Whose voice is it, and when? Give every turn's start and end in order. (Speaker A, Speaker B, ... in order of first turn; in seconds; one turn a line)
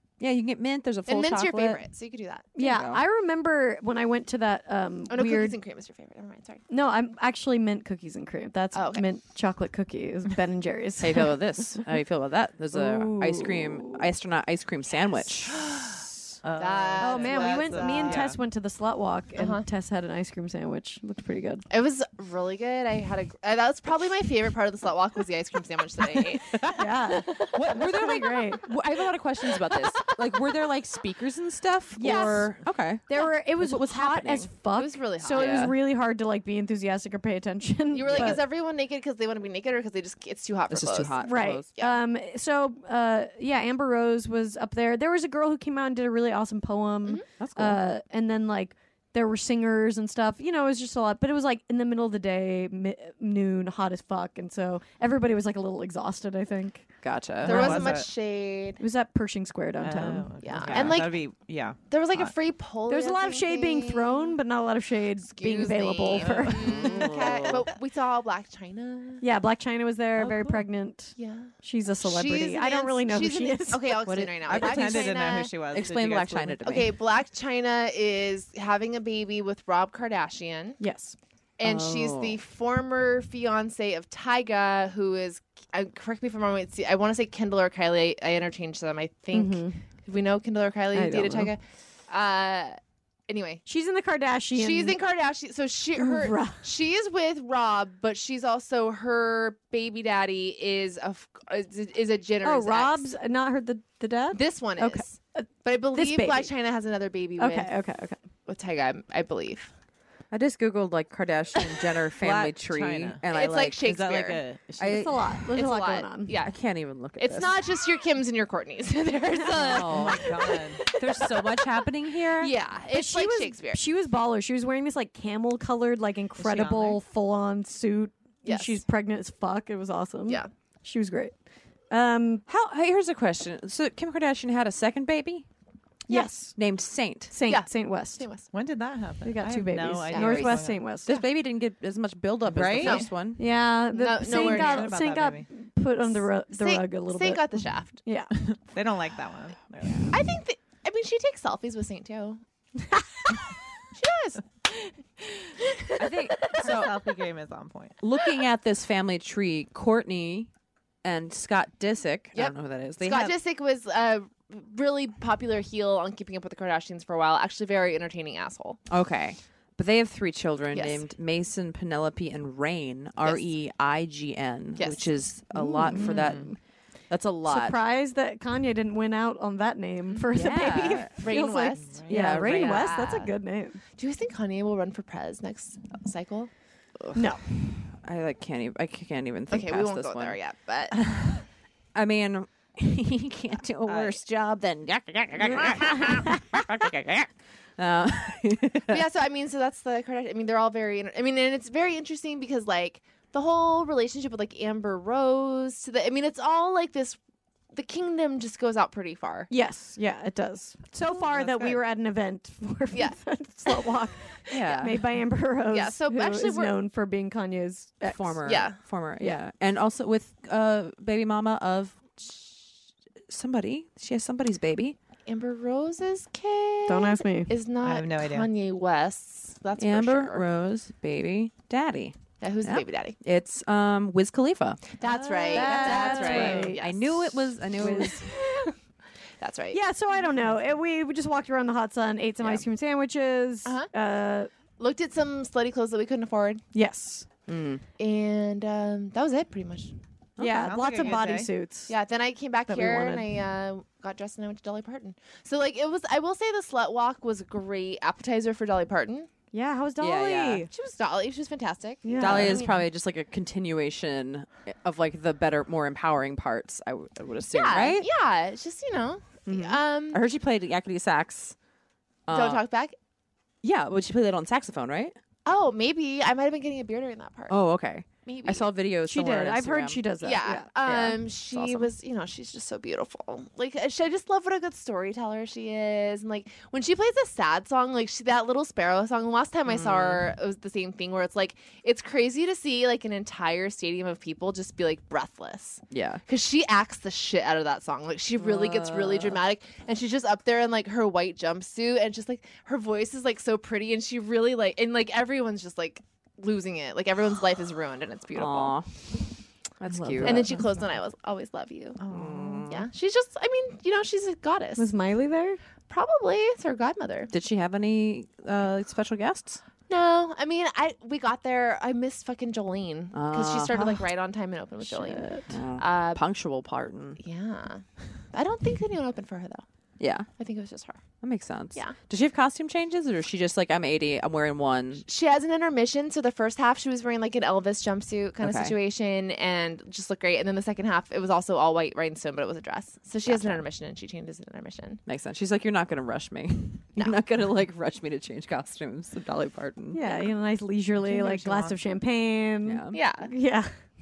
Speaker A: 0.2-1.9
Speaker B: 1.1-2.5
Speaker C: 2.5-5.6
Speaker A: 2.6-3.0
Speaker B: 5.1-6.6
Speaker C: 6.7-11.8
Speaker B: 8.7-9.1
Speaker A: 11.0-15.6
Speaker C: 12.7-14.1
Speaker B: 15.6-16.0
Speaker D: 16.4-18.4
Speaker B: 16.6-18.3
Speaker C: 17.0-21.7
Speaker B: 19.4-19.6
Speaker B: 21.7-26.7
Speaker A: 26.5-34.5
Speaker C: 26.8-28.7
Speaker B: 27.3-27.7
Speaker C: 32.0-38.4
Speaker B: 32.0-32.5
Speaker B: 34.7-35.7
Speaker A: 35.3-35.8
Speaker B: 37.9-42.0
Speaker A: 40.7-41.7
Speaker C: 41.2-56.9
Speaker A: 47.4-47.8
Speaker A: 57.0-57.9
Speaker B: 57.4-58.8
Speaker D: 57.5-58.1
Speaker C: 58.8-60.8
Speaker D: 59.8-62.3
Speaker B: 60.4-61.2
Speaker A: 60.7-60.9
Speaker B: 61.9-64.4
Speaker C: 62.9-67.0
Speaker B: 65.2-69.2
Speaker D: 66.2-67.6
Speaker A: 66.6-67.7
Speaker C: 69.2-74.0
Speaker D: 70.2-70.6
Speaker B: 71.2-75.5
Speaker A: 74.0-77.0
Speaker D: 74.5-76.8
Speaker B: 76.6-80.8
Speaker C: 80.8-81.2
Speaker B: 81.6-92.8
Speaker A: 81.6-82.4
Speaker C: 89.3-89.8
Speaker C: 90.9-91.5
Speaker B: 93.3-93.6
Speaker C: 93.7-95.0
Speaker B: 94.5-103.1
Speaker C: 96.0-96.6
Speaker C: 102.4-106.5
Speaker B: 104.3-107.7
Speaker C: 107.4-108.2
Speaker B: 108.5-109.7
Speaker A: 110.3-113.9
Speaker D: 112.2-113.2
Speaker B: 113.3-114.4
Speaker D: 113.8-115.1
Speaker A: 114.8-115.4
Speaker C: 114.8-116.3
Speaker B: 115.5-116.5
Speaker A: 116.4-117.5
Speaker B: 117.2-121.5
Speaker A: 119.6-120.3
Speaker D: 119.7-120.8
Speaker A: 120.9-122.5
Speaker B: 122.3-123.8
Speaker C: 122.9-131.3
Speaker D: 126.4-127.0
Speaker B: 128.4-128.8
Speaker C: 131.9-132.4
Speaker A: 132.5-135.5
Speaker C: 136.1-136.6
Speaker A: 136.5-137.3
Speaker C: 137.3-138.2
Speaker B: 137.5-138.5
Speaker D: 138.5-140.8
Speaker C: 139.2-141.1
Speaker B: 140.1-141.2
Speaker A: 141.1-143.4
Speaker D: 142.5-143.1
Speaker B: 142.8-143.1
Speaker C: 143.4-148.3
Speaker B: 143.9-144.9
Speaker D: 144.2-145.5
Speaker B: 146.5-148.0
Speaker D: 148.5-150.2
Speaker A: 149.9-150.2
Speaker B: 150.1-152.4
Speaker B: 153.9-156.8
Speaker A: 156.0-156.9
Speaker D: 156.5-158.0
Speaker A: 158.0-160.5
Speaker A: 161.0-163.4
Speaker B: 162.3-168.8
Speaker A: 168.9-176.6
Speaker B: 170.7-171.0
Speaker B: 173.2-173.5
Speaker B: 174.8-175.1
Speaker C: 175.6-176.2
Speaker D: 176.0-176.5
Speaker A: 177.1-177.8
Speaker C: 177.5-183.8
Speaker A: 180.3-181.3
Speaker B: 181.2-183.3
Speaker D: 181.8-182.2
Speaker A: 182.1-183.0
Speaker B: 184.0-186.5
Speaker A: 187.0-190.4
Speaker C: 187.2-187.4
Speaker B: 189.5-191.0
Speaker A: 191.9-199.1
Speaker D: 193.9-194.2
Speaker C: 195.4-196.4
Speaker B: 198.9-207.2
Speaker B: 207.7-209.5
Speaker C: 209.5-218.4
Speaker D: 211.1-211.8
Speaker B: 212.9-213.9
Speaker A: 214.5-215.0
Speaker B: 215.7-216.8
Speaker A: 218.1-222.0
Speaker B: 218.5-218.8
Speaker A: 223.3-225.0
Speaker B: 225.3-230.5
Speaker C: 226.9-227.5
Speaker D: 227.8-228.5
Speaker A: 229.8-238.2
Speaker B: 232.4-233.2
Speaker B: 235.0-237.5
Speaker C: 235.0-236.8
Speaker D: 236.3-236.6
Speaker C: 237.8-238.4
Speaker B: 238.3-238.7
Speaker B: 239.4-239.8
Speaker C: 239.7-244.5
Speaker B: 244.8-246.6
Speaker C: 246.7-247.3
Speaker A: 247.5-247.8
Speaker B: 248.0-249.9
Speaker A: 250.4-250.8
Speaker C: 250.4-251.9
Speaker D: 250.6-251.5
Speaker B: 251.0-259.3
Speaker C: 252.7-253.3
Speaker C: 259.5-260.7
Speaker A: 260.0-260.7
Speaker B: 260.7-262.8
Speaker C: 262.0-262.7
Speaker A: 262.1-268.1
Speaker B: 267.5-270.2
Speaker A: 269.5-271.6
Speaker A: 272.3-272.6
Speaker B: 272.3-272.9
Speaker A: 273.6-275.2
Speaker B: 275.4-277.6
Speaker A: 277.5-280.1
Speaker B: 278.2-278.7
Speaker C: 279.1-280.7
Speaker B: 280.2-308.8
Speaker A: 280.8-281.9
Speaker A: 289.7-290.3
Speaker A: 295.9-296.2
Speaker A: 298.4-299.4
Speaker A: 308.3-309.1
Speaker A: 309.8-310.5
Speaker C: 309.9-310.5
Speaker B: 310.2-312.0
Speaker D: 310.5-310.9
Speaker D: 312.0-312.7
Speaker A: 312.1-312.9
Speaker B: 312.7-314.9
Speaker C: 314.8-315.6
Speaker B: 315.9-317.3
Speaker A: 317.3-319.6
Speaker B: 319.9-325.3
Speaker A: 323.1-324.0
Speaker C: 324.9-325.5
Speaker A: 325.5-327.2
Speaker B: 325.8-326.2
Speaker B: 327.2-329.6
Speaker A: 330.0-330.3
Speaker B: 330.4-331.0
Speaker A: 331.2-335.1
Speaker B: 335.1-345.0
Speaker A: 338.4-338.7
Speaker A: 343.2-343.6
Speaker A: 345.1-350.0
Speaker C: 349.9-353.7
Speaker D: 351.0-351.8
Speaker A: 352.6-353.0
Speaker B: 352.9-353.3